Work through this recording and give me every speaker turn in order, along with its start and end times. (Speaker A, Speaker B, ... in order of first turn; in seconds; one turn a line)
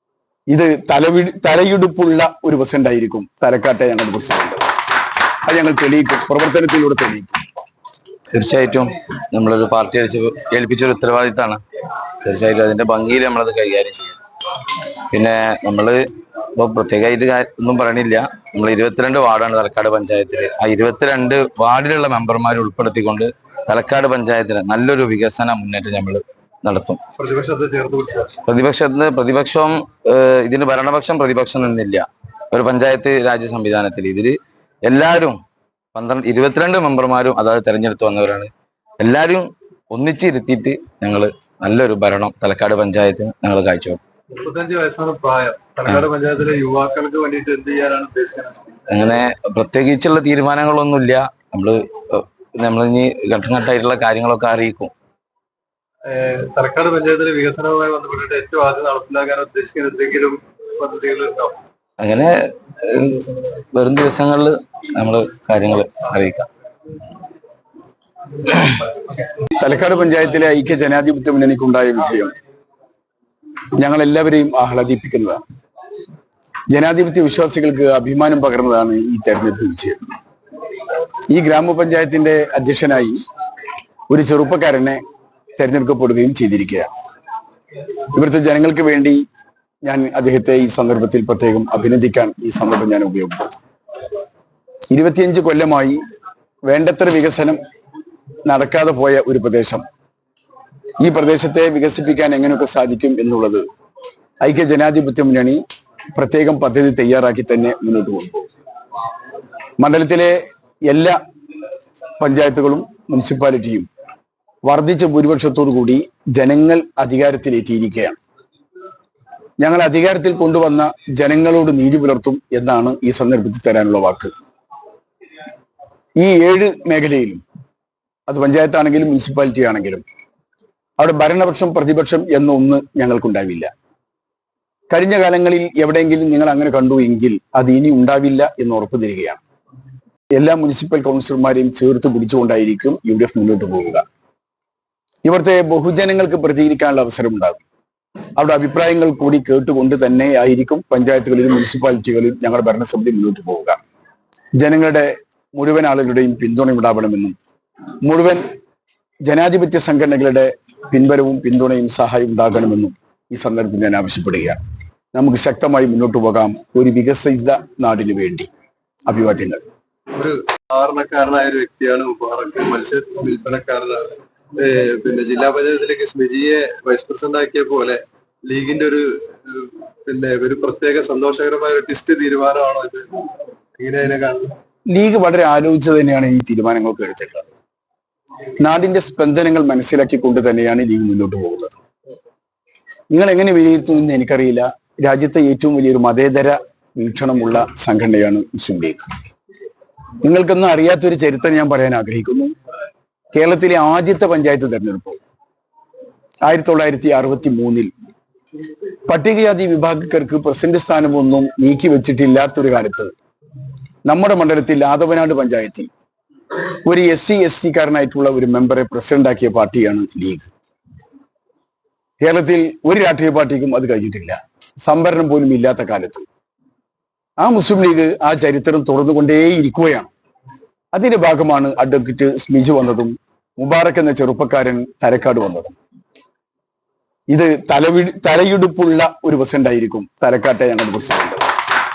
Speaker A: 0.5-4.7
Speaker A: 5.4-7.4
Speaker B: 8.3-11.6
Speaker B: 12.2-14.2
Speaker B: 15.1-16.0
Speaker B: 16.6-27.0
Speaker C: 27.2-28.4
Speaker B: 28.5-35.4
Speaker B: 35.9-44.0
Speaker C: 44.3-48.7
Speaker B: 48.9-54.9
Speaker C: 56.0-61.6
Speaker B: 62.0-66.5
Speaker A: 69.6-72.3
Speaker A: 73.8-75.4
Speaker A: 76.7-80.1
Speaker A: 81.3-83.2
Speaker A: 84.1-85.0
Speaker A: 85.6-86.9
Speaker A: 88.1-89.2
Speaker A: 89.8-93.6
Speaker A: 94.9-96.0
Speaker A: 96.7-97.6
Speaker A: 98.5-99.8
Speaker A: 101.0-103.6
Speaker A: 104.4-105.6
Speaker A: 106.1-108.5
Speaker A: 109.8-111.2
Speaker A: 112.2-113.9
Speaker A: 114.6-118.2
Speaker A: 119.6-124.3
Speaker A: 126.2-127.4
Speaker A: 128.3-130.0
Speaker A: 131.0-133.7
Speaker A: 134.9-139.4
Speaker A: 140.3-144.0
Speaker A: 145.2-147.6
Speaker A: 148.4-153.8
Speaker A: 154.6-157.3
Speaker A: 158.0-158.4
Speaker A: 159.2-164.6
Speaker A: 165.1-168.5
Speaker A: 169.1-169.6
Speaker C: 170.1-183.1
Speaker C: 183.8-184.5
Speaker A: 184.9-187.5
Speaker A: 188.6-191.8
Speaker A: 193.1-199.3
Speaker A: 200.2-202.5
Speaker A: 203.3-205.2
Speaker A: 206.4-207.9
Speaker A: 209.1-213.1
Speaker A: 214.1-215.9
Speaker A: 216.8-220.5
Speaker A: 222.2-226.2
Speaker A: 227.4-230.1
Speaker A: 230.9-235.8
Speaker A: 237.3-241.5